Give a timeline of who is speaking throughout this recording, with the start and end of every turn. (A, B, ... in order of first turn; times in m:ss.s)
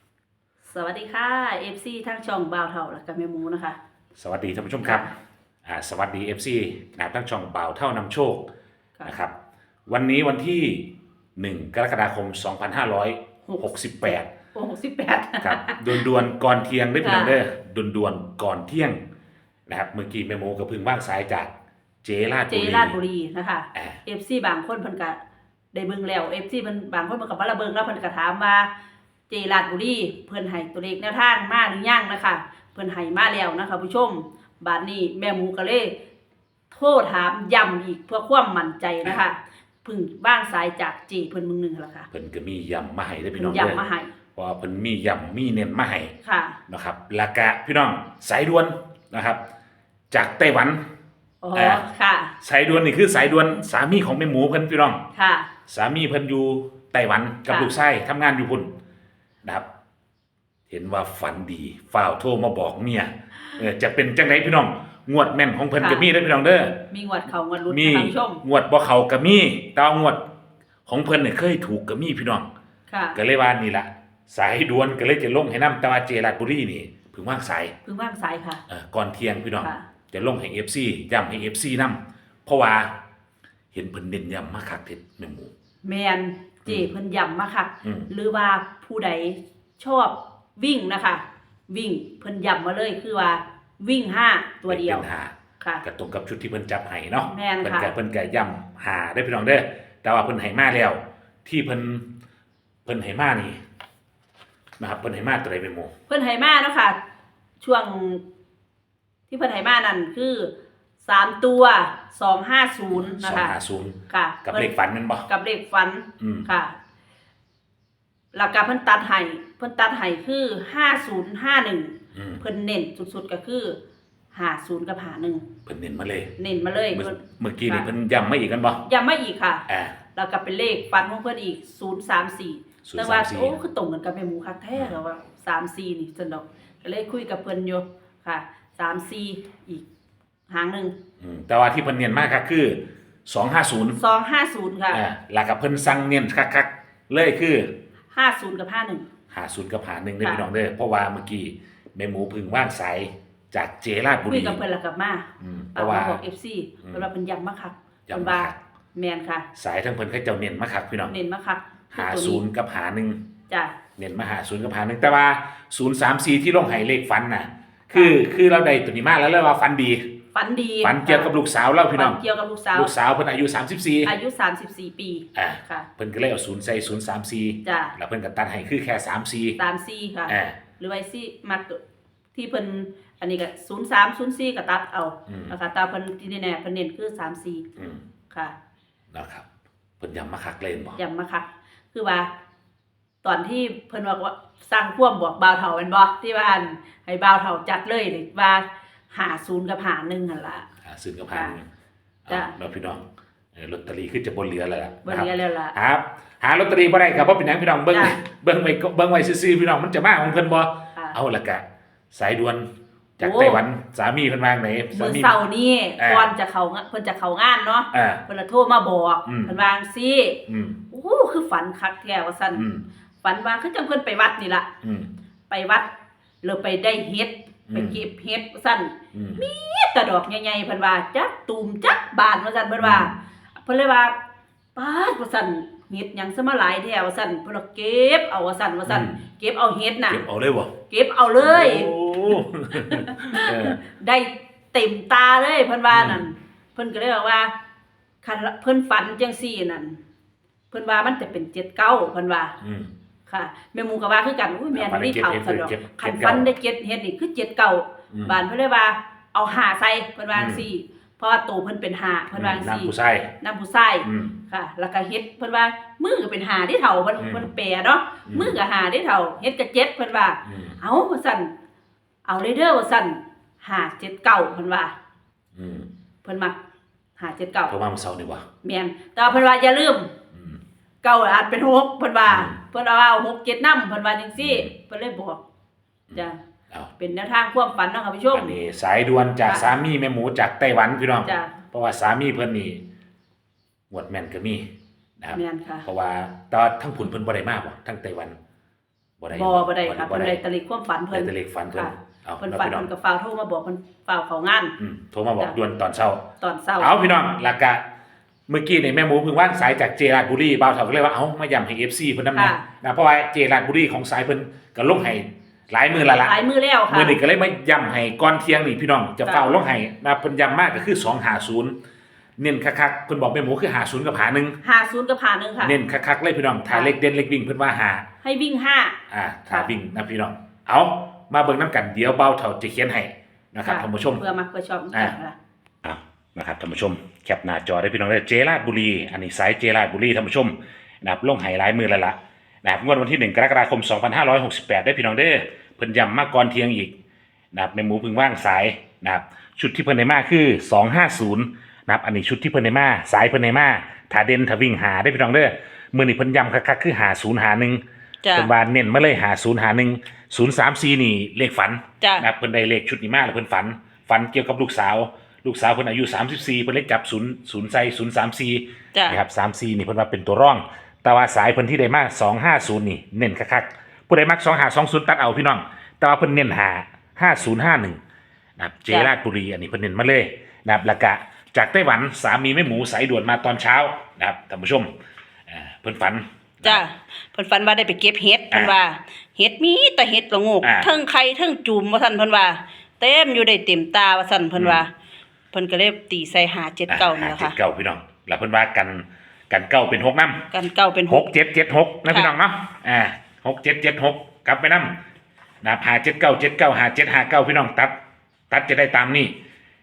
0:00.6-0:03.8 A
0:04.2-0:05.1 B
0:04.8-0:05.1 A
0:05.6-0:08.5 B
0:09.0-0:09.4 B
0:09.9-0:14.3 B
0:13.4-0:13.7 A
0:14.5-0:16.0 A
0:15.4-0:19.0 B
0:17.0-0:17.4 A
0:19.7-0:21.5 B
0:22.0-0:23.0 B
0:22.5-0:25.2 A
0:23.7-0:24.0 B
0:25.7-0:28.7 A
0:29.3-0:35.9 A
0:36.7-0:42.1 A
0:42.1-0:43.8 B
0:43.4-0:44.1 A
0:44.3-0:46.1 B
0:46.2-0:46.6 A
0:46.7-0:49.4 B
0:50.1-0:50.8 B
0:51.4-0:52.3 A
0:51.5-0:51.8 B
0:52.4-0:55.0 B
0:55.1-0:55.5 A
0:55.7-0:58.7 B
1:00.7-1:06.9 B
1:05.8-1:06.1 A
1:06.9-1:08.4 A
1:07.7-1:10.2 B
1:10.9-1:12.5 B
1:12.9-1:13.2 A
1:13.1-1:17.7 B
1:17.8-1:18.6 A
1:18.7-1:23.0 B
1:23.7-1:25.5 B
1:25.8-1:35.0 A
1:27.8-1:28.1 B
1:34.7-1:42.1 B
1:37.2-1:37.9 A
1:42.8-1:43.6 B
1:44.8-1:45.9 B
1:46.1-1:47.0 A
1:47.6-1:48.2 A
1:49.3-1:50.5 A
1:51.0-1:53.6 A
1:52.9-1:55.3 B
1:54.1-1:54.7 A
1:55.3-1:56.7 A
1:56.2-1:56.5 B
1:58.3-2:03.8 A
2:02.1-2:02.4 B
2:04.3-2:05.5 A
2:05.6-2:06.3 B
2:06.4-2:07.9 A
2:06.9-2:08.8 B
2:08.8-2:19.8 A
2:09.7-2:10.0 B
2:12.8-2:13.6 B
2:20.5-2:20.9 A
2:21.2-2:24.0 B
2:24.0-2:25.0 A
2:24.9-2:27.7 B
2:28.1-2:29.0 A
2:29.3-2:34.6 B
2:34.3-2:39.5 A
2:35.4-2:36.2 B
2:38.1-2:38.6 B
2:39.5-2:41.1 B
2:41.1-2:42.4 A
2:41.9-2:43.2 B
2:43.5-2:43.8 A
2:44.0-2:50.1 B
2:47.9-2:48.2 A
2:50.3-2:51.3 A
2:50.8-2:52.2 B
2:51.9-2:52.9 A
2:52.7-2:54.1 B
2:54.0-2:55.9 A
2:55.3-2:59.6 B
2:57.6-2:57.9 A
2:59.6-3:01.8 A
3:00.3-3:00.6 B
3:02.3-3:07.6 A
3:05.3-3:05.5 B
3:07.8-3:08.0 B
3:09.1-3:09.4 B
3:10.0-3:11.0 B
3:11.0-3:12.3 A
3:13.2-3:20.7 A
3:20.8-3:21.7 B
3:22.2-3:35.3 B
3:25.0-3:25.7 A
3:27.9-3:28.2 A
3:33.2-3:33.6 A
3:34.9-3:40.4 A
3:36.0-3:36.3 B
3:37.9-3:38.2 B
3:39.2-3:39.5 B
3:40.5-3:40.8 B
3:40.9-3:42.6 A
3:42.5-3:42.8 B
3:43.2-3:44.7 A
3:44.8-3:45.1 B
3:45.5-3:45.9 A
3:46.4-3:54.2 A
3:47.7-3:48.0 B
3:49.1-3:49.4 B
3:52.8-3:53.1 B
3:54.8-4:00.2 A
3:58.9-3:59.2 B
4:00.1-4:00.7 B
4:00.9-4:07.5 A
4:01.4-4:03.8 B
4:05.9-4:06.2 B
4:08.2-4:10.0 A
4:10.7-4:12.5 A
4:12.6-4:12.9 B
4:13.3-4:31.5 A
4:14.7-4:16.4 B
4:18.1-4:18.4 B
4:20.3-4:20.6 B
4:22.3-4:23.3 B
4:24.0-4:24.4 B
4:27.2-4:27.5 B
4:28.2-4:28.6 B
4:30.4-4:30.8 B
4:32.2-4:34.9 A
4:35.5-4:35.9 B
4:36.2-4:36.6 A
4:37.2-4:37.7 A
4:37.7-4:38.5 B
4:38.6-4:40.1 A
4:40.3-4:40.6 B
4:41.0-4:45.4 A
4:42.3-4:42.6 B
4:44.4-4:44.7 B
4:46.1-4:46.9 B
4:47.0-4:48.6 A
4:48.3-4:52.8 B
4:49.5-4:49.7 A
4:51.2-4:51.5 A
4:53.9-4:54.7 B
4:55.2-4:58.4 B
4:55.3-4:55.8 A
4:59.2-5:00.4 B
4:59.3-5:04.7 A
5:01.1-5:02.9 B
5:04.8-5:06.3 B
5:06.4-5:07.0 A
5:06.8-5:07.8 B
5:08.5-5:16.4 B
5:12.3-5:12.6 A
5:16.2-5:17.2 A
5:16.9-5:21.7 B
5:19.2-5:19.5 A
5:22.4-5:24.6 B
5:24.6-5:25.8 A
5:25.6-5:28.0 B
5:28.2-5:29.0 A
5:29.1-5:34.2 B
5:33.6-5:35.4 A
5:35.8-5:46.9 B
5:47.5-5:57.8 B
5:58.2-5:58.5 A
5:58.3-6:18.0 B
6:02.0-6:02.3 A
6:08.9-6:09.2 A
6:18.6-6:24.9 B
6:25.5-6:26.8 B
6:26.6-6:34.9 A
6:30.6-6:30.9 B
6:34.5-6:34.8 B
6:35.5-6:37.5 A
6:36.9-6:40.5 B
6:40.5-6:41.3 A
6:41.1-6:45.0 B
6:42.1-6:42.3 A
6:45.6-6:48.0 B
6:48.5-6:49.3 B